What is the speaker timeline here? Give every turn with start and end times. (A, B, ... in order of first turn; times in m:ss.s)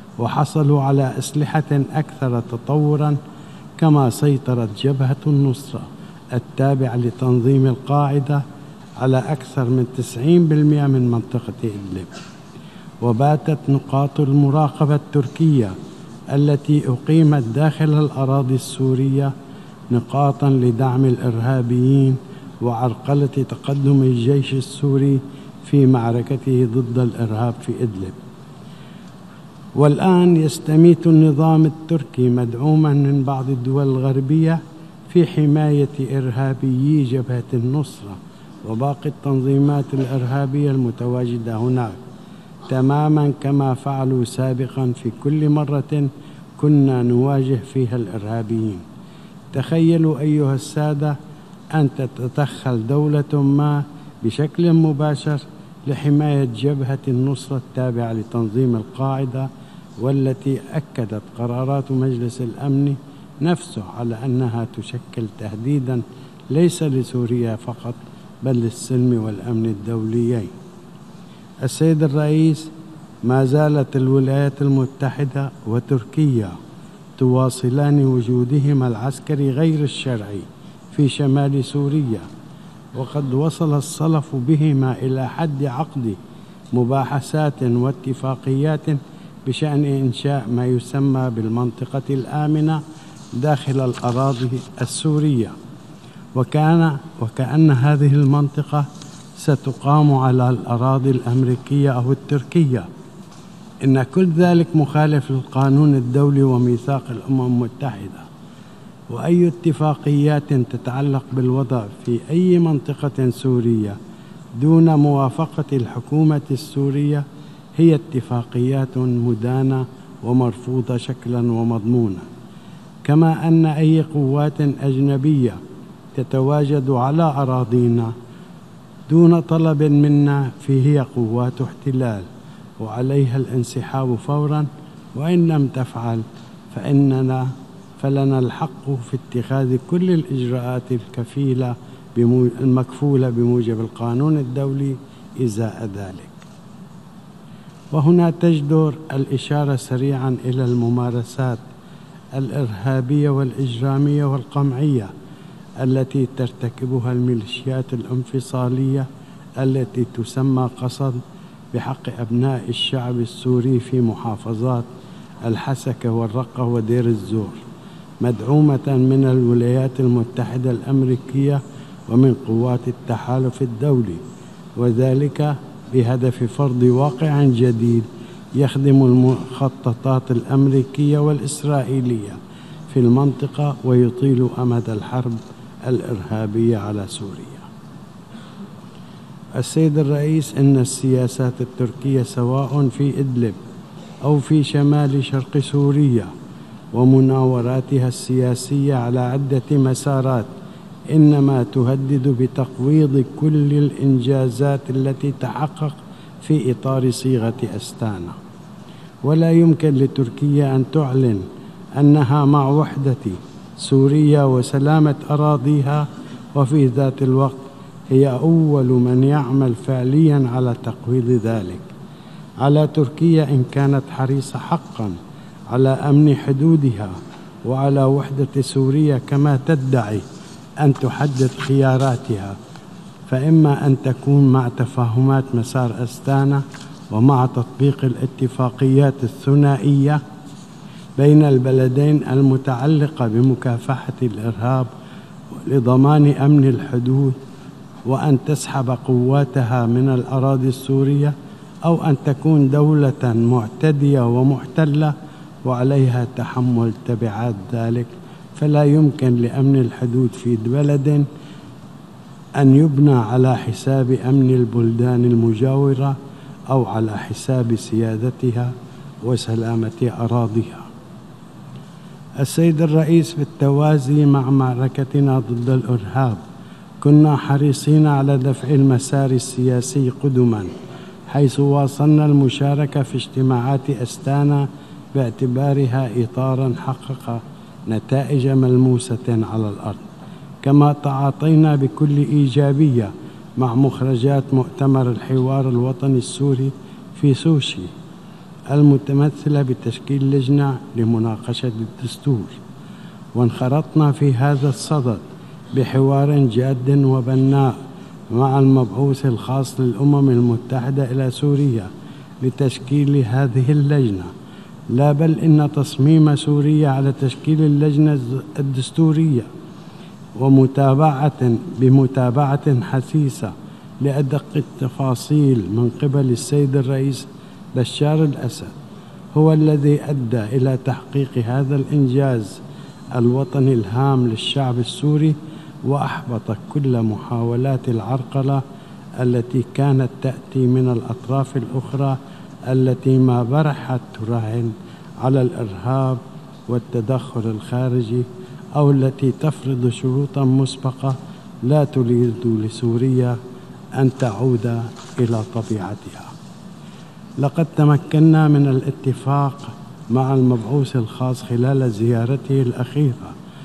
0:00.2-0:03.2 A
0:03.8-0:08.4 A
0:09.0-0:12.1 A
0:13.0-0:15.7 A
0:16.3-0:19.3 A
0:19.9-0:28.2 A
0:29.8-0:42.0 A
0:42.7-0:48.8 A
0:49.5-0:51.2 A
0:51.7-1:10.5 A
1:11.6-1:12.7 A
1:13.2-1:16.6 A
1:17.2-1:22.3 A
1:23.0-1:26.2 A
1:26.7-1:32.8 A
1:33.4-1:35.5 A
1:36.4-1:38.9 A
1:39.4-1:42.9 A
1:43.8-1:48.3 A
1:49.1-1:54.0 A
1:54.6-1:57.2 A
1:57.8-2:02.3 A
2:03.0-2:05.6 A
2:06.1-2:08.1 A
2:09.1-2:12.3 A
2:12.8-2:26.5 A
2:27.9-2:31.6 A
2:32.3-2:35.1 A
2:35.8-2:39.1 A
2:39.6-2:41.2 A
2:41.7-2:44.9 A
2:45.4-2:47.6 A
2:48.2-2:54.2 A
2:54.8-3:02.4 A
3:02.9-3:07.7 A
3:09.5-3:13.6 A
3:14.2-3:16.3 A
3:16.9-3:20.5 A
3:21.1-3:28.4 A
3:29.2-3:31.4 A
3:32.0-3:41.9 A
3:42.6-3:45.2 A
3:45.7-3:47.1 A
3:47.7-3:50.2 A
3:50.8-3:52.6 A
3:53.3-4:00.2 A
4:01.2-4:04.9 A
4:05.5-4:07.4 A
4:08.1-4:11.3 A
4:11.8-4:15.1 A
4:15.6-4:21.3 A
4:22.6-4:26.2 A
4:26.7-4:28.7 A
4:29.2-4:30.9 A
4:32.4-4:36.4 A
4:37.0-4:40.7 A
4:41.3-4:50.1 A
4:50.6-4:57.9 A
4:58.7-5:02.6 A
5:03.4-5:05.2 A
5:05.7-5:07.8 A
5:08.3-5:11.9 A
5:12.4-5:14.3 A
5:14.9-5:19.5 A
5:20.4-5:28.7 A
5:29.3-5:32.6 A
5:33.1-5:38.6 A
5:39.2-5:53.4 A
5:54.0-5:56.3 A
5:57.4-6:03.3 A